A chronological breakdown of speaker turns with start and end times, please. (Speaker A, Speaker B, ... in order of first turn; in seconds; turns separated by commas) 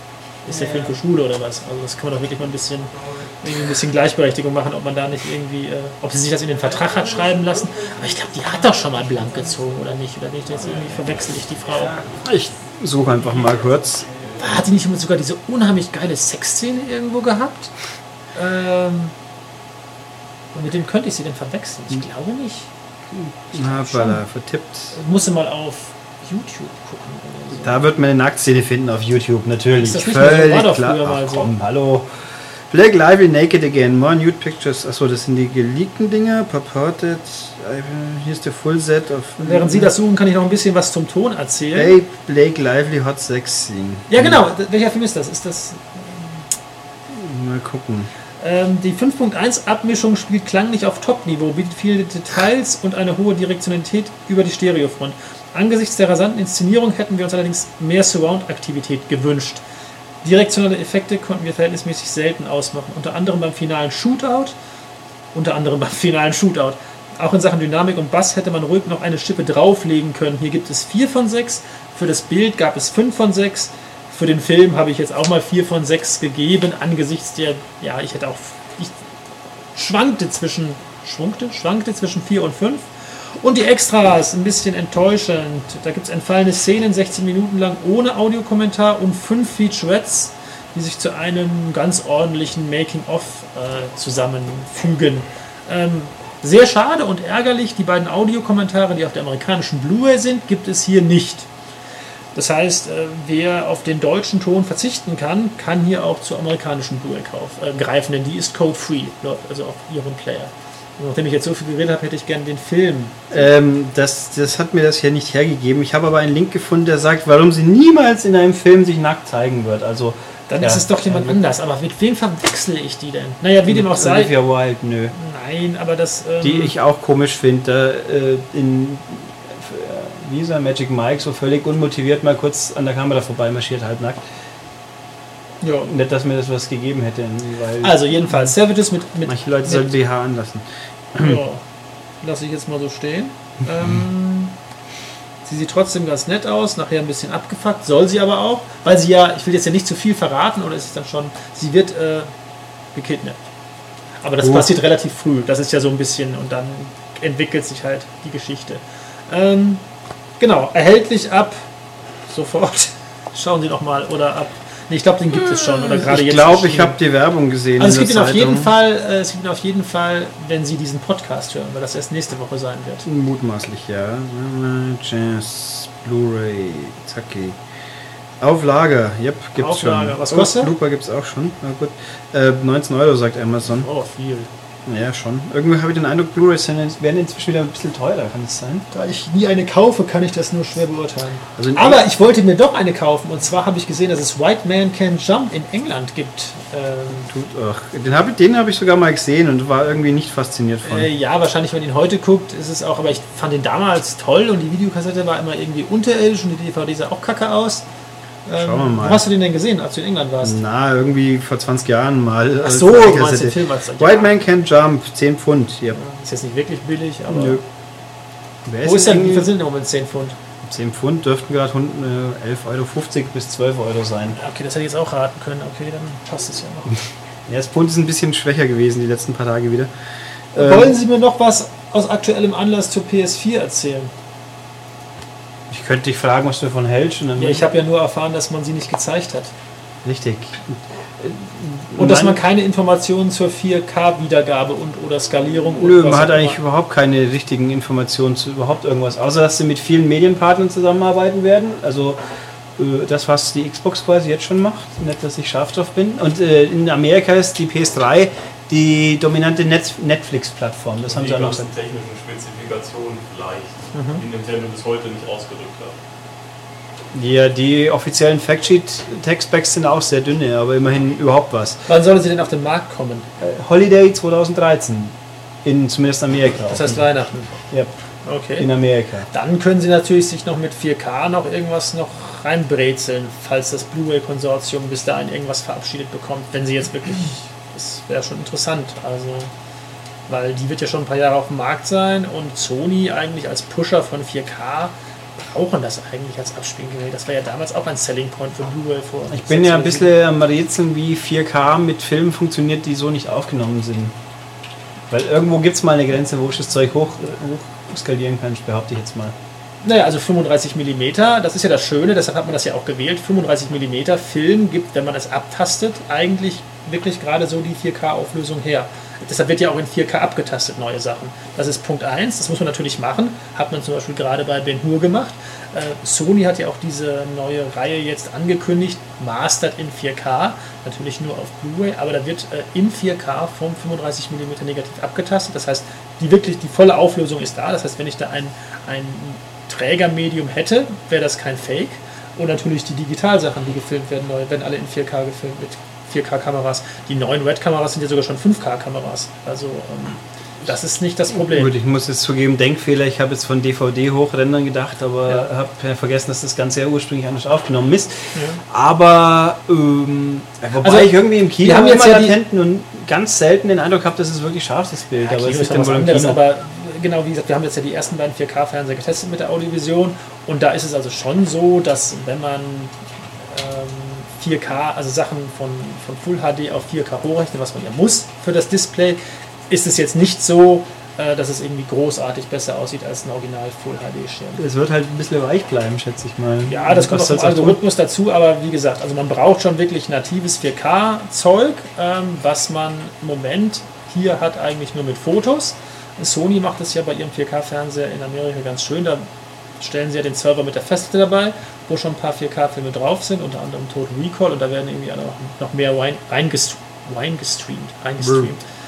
Speaker A: 0.4-12.0, Speaker B: 0.5-0.9, Speaker B: 11.9-14.1, Speaker A: 14.4-17.7, Speaker A: 18.4-19.1, Speaker A: 20.5-22.7, Speaker B: 23.1-24.9, Speaker A: 23.5-24.2, Speaker A: 24.9-27.9, Speaker B: 27.5-32.1, Speaker A: 29.8-31.5, Speaker B: 32.7-39.9, Speaker A: 39.4-42.0, Speaker B: 41.7-44.4, Speaker A: 44.1-46.5, Speaker B: 47.1-48.1, Speaker A: 48.4-59.6, Speaker A: 60.2-64.5, Speaker A: 65.3-79.0, Speaker A: 79.8-101.5, Speaker A: 102.3-113.4, Speaker B: 113.3-121.4, Speaker A: 120.5-124.3, Speaker B: 123.7-125.1, Speaker A: 125.1-126.7, Speaker B: 126.4-134.2, Speaker A: 135.6-135.9, Speaker B: 135.9-138.5, Speaker A: 137.8-140.0, Speaker B: 139.2-141.4, Speaker A: 141.2-141.6, Speaker A: 142.2-144.6, Speaker A: 145.4-152.3, Speaker A: 152.9-153.4, Speaker A: 154.2-159.8, Speaker B: 154.4-154.7, Speaker A: 160.4-161.6, Speaker A: 162.3-167.0, Speaker B: 165.3-168.7, Speaker A: 167.8-173.1, Speaker B: 173.1-177.6, Speaker B: 178.4-183.9, Speaker A: 179.6-180.7, Speaker A: 183.7-184.5, Speaker B: 184.9-188.9, Speaker A: 188.9-197.3, Speaker B: 191.6-192.1, Speaker B: 197.3-201.1, Speaker A: 200.8-207.9, Speaker A: 208.5-210.6, Speaker B: 208.6-209.3, Speaker B: 210.4-216.0, Speaker A: 212.6-214.3, Speaker A: 215.9-217.6, Speaker B: 217.3-217.6, Speaker B: 218.7-219.5, Speaker A: 218.8-220.4, Speaker B: 220.6-224.4, Speaker A: 224.3-227.0, Speaker B: 227.5-229.9, Speaker B: 230.5-231.0, Speaker A: 230.6-234.1, Speaker B: 235.7-237.7, Speaker A: 237.4-239.5, Speaker B: 240.0-242.4, Speaker A: 242.0-246.6, Speaker B: 245.8-252.2, Speaker B: 252.8-261.7, Speaker C: 261.1-266.0, Speaker A: 263.9-264.2, Speaker B: 267.1-271.9, Speaker A: 271.9-273.3, Speaker B: 273.4-277.1, Speaker A: 276.7-277.6, Speaker A: 278.2-278.7, Speaker B: 278.6-279.3, Speaker A: 279.3-289.5, Speaker A: 290.3-300.1, Speaker B: 299.3-304.2, Speaker B: 305.1-309.4, Speaker A: 309.8-351.7, Speaker B: 351.3-366.4, Speaker A: 358.3-358.6, Speaker A: 360.8-362.4, Speaker A: 365.2-372.9, Speaker A: 373.5-384.6, Speaker B: 384.6-387.8, Speaker A: 386.7-399.3, Speaker A: 399.8-408.6, Speaker B: 408.2-408.5